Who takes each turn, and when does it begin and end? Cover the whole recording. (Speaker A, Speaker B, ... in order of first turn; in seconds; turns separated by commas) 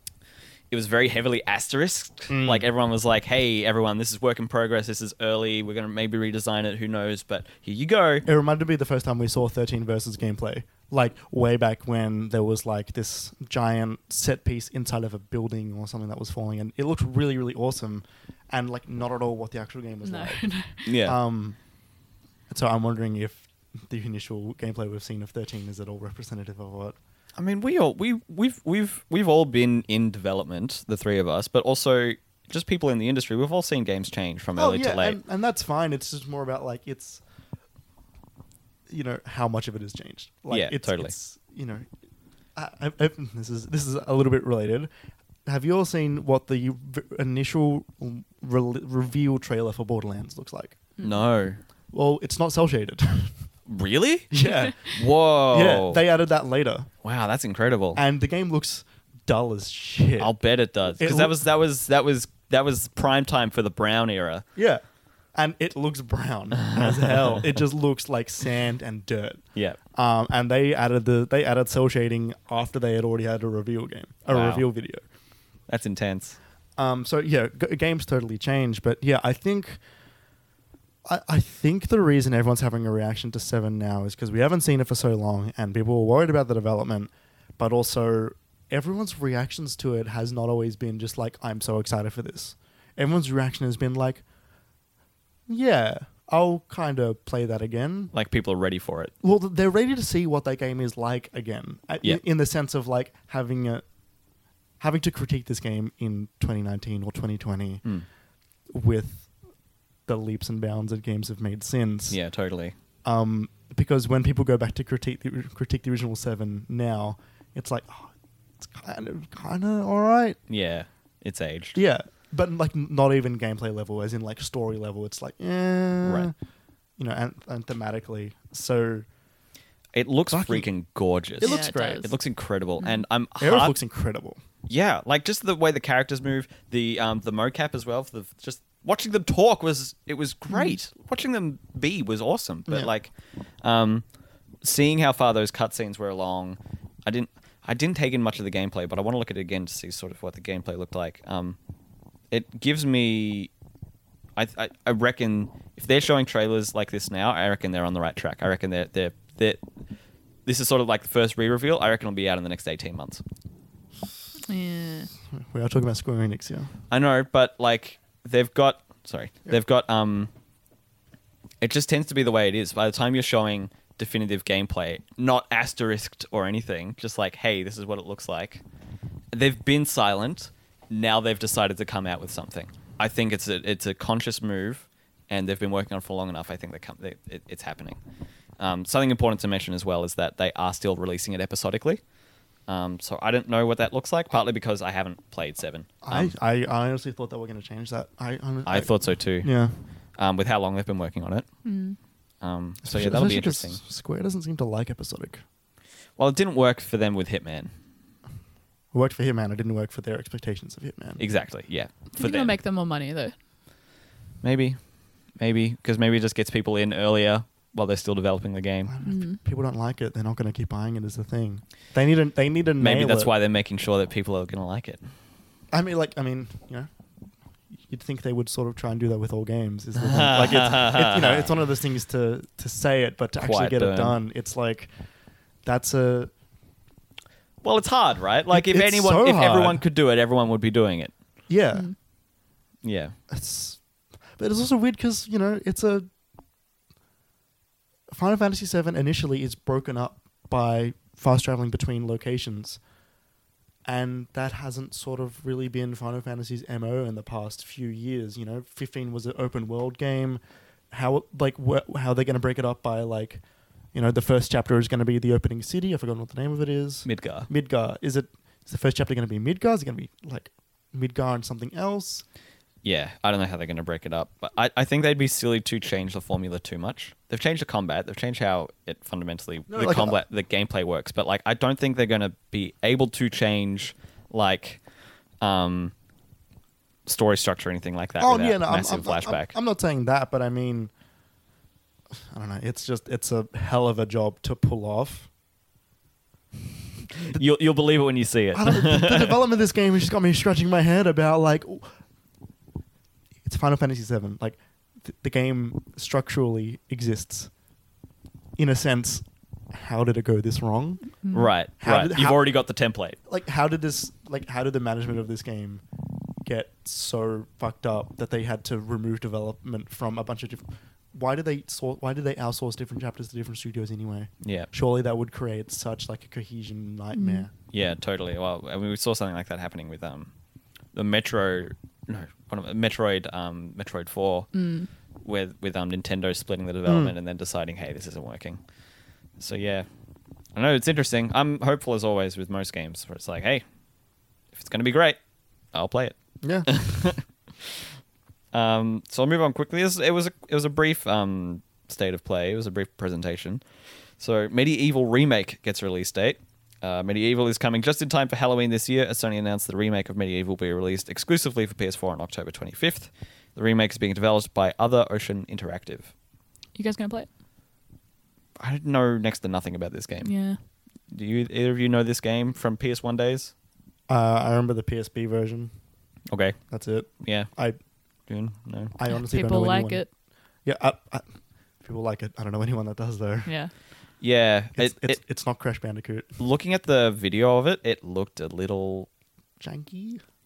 Speaker A: 0.7-8.2, Speaker B: 2.3-2.7, Speaker B: 8.3-20.5, Speaker C: 20.0-20.9, Speaker A: 20.9-21.2, Speaker B: 21.0-21.6, Speaker B: 22.5-27.0, Speaker A: 27.4-35.2, Speaker B: 34.6-37.2, Speaker B: 38.9-41.9, Speaker A: 40.5-41.1, Speaker B: 42.5-44.9, Speaker B: 45.5-50.9, Speaker A: 51.0-51.6, Speaker B: 51.9-53.3, Speaker A: 53.7-56.0, Speaker B: 54.3-56.9, Speaker A: 57.0-58.0, Speaker B: 58.0-60.3, Speaker A: 60.2-64.5, Speaker B: 61.0-61.4, Speaker B: 64.6-64.8, Speaker B: 65.3-75.0, Speaker A: 66.6-67.4, Speaker A: 74.3-74.7, Speaker A: 75.7-76.4, Speaker B: 76.8-79.8, Speaker B: 81.1-94.2, Speaker B: 95.5-98.1, Speaker A: 98.1-99.1, Speaker B: 99.2-103.8, Speaker B: 104.8-107.8, Speaker B: 108.7-109.3, Speaker B: 110.1-112.2, Speaker A: 112.1-112.8, Speaker B: 113.0-120.4, Speaker A: 120.5-121.8, Speaker B: 121.8-126.3, Speaker A: 126.0-126.3, Speaker B: 127.0-129.1, Speaker A: 129.9-133.8, Speaker B: 130.3-130.7, Speaker B: 131.4-132.1, Speaker C: 131.4-132.2, Speaker B: 133.4-134.4, Speaker A: 134.7-144.1, Speaker A: 144.6-151.6, Speaker A: 152.3-153.5, Speaker A: 154.4-159.6, Speaker A: 160.4-163.2, Speaker C: 164.5-165.1, Speaker B: 165.3-166.7, Speaker A: 166.9-170.3, Speaker A: 171.6-178.6, Speaker A: 179.3-188.0, Speaker A: 188.6-192.0, Speaker A: 192.7-196.3, Speaker B: 196.0-199.8, Speaker A: 198.7-199.5, Speaker A: 200.2-201.5, Speaker C: 201.6-202.0, Speaker A: 202.4-203.8, Speaker B: 202.8-205.4, Speaker A: 206.2-207.7, Speaker B: 208.9-211.2, Speaker A: 211.2-212.5, Speaker C: 212.1-213.3, Speaker A: 214.4-214.8, Speaker A: 215.4-218.9, Speaker B: 218.9-223.3, Speaker C: 219.0-219.4, Speaker A: 222.8-225.0, Speaker B: 225.7-226.9, Speaker B: 227.9-234.9, Speaker A: 230.0-231.5, Speaker A: 233.4-234.2, Speaker B: 235.6-236.3, Speaker A: 237.6-241.1, Speaker B: 238.5-239.8, Speaker B: 241.5-241.9, Speaker A: 242.8-243.2, Speaker B: 243.3-243.8, Speaker B: 244.4-246.1, Speaker B: 248.1-252.8, Speaker B: 253.9-263.4, Speaker B: 263.9-272.2, Speaker A: 267.1-267.5, Speaker A: 272.8-284.8, Speaker B: 279.7-280.2, Speaker A: 285.4-285.9, Speaker A: 287.1-289.6, Speaker B: 288.2-290.9, Speaker B: 292.2-295.3, Speaker A: 297.3-299.4, Speaker B: 298.5-301.9, Speaker B: 303.4-307.5, Speaker B: 308.6-311.2, Speaker C: 311.2-311.5, Speaker A: 311.3-313.2, Speaker B: 311.8-312.4, Speaker B: 313.3-315.8, Speaker B: 316.4-327.5, Speaker A: 324.4-324.7, Speaker C: 327.1-327.5, Speaker A: 327.7-330.3, Speaker A: 330.9-334.5, Speaker C: 334.5-334.9, Speaker A: 335.2-338.6, Speaker B: 336.9-337.1, Speaker A: 339.4-339.9, Speaker A: 340.6-343.6, Speaker A: 344.5-345.2, Speaker A: 345.7-347.2, Speaker B: 346.4-346.7, Speaker A: 348.5-353.6, Speaker A: 354.2-366.1, Speaker C: 366.8-367.3, Speaker A: 368.6-370.3, Speaker C: 370.2-370.6, Speaker A: 371.1-373.5, Speaker B: 374.1-375.7, Speaker A: 376.3-376.6, Speaker B: 376.7-377.8, Speaker A: 377.2-377.5, Speaker A: 378.3-378.9, Speaker B: 378.9-380.1, Speaker C: 379.1-380.1, Speaker B: 380.6-381.3, Speaker B: 381.8-383.5, Speaker C: 383.5-383.7, Speaker A: 384.2-385.2, Speaker B: 384.8-386.4, Speaker A: 386.4-389.1, Speaker B: 389.6-390.2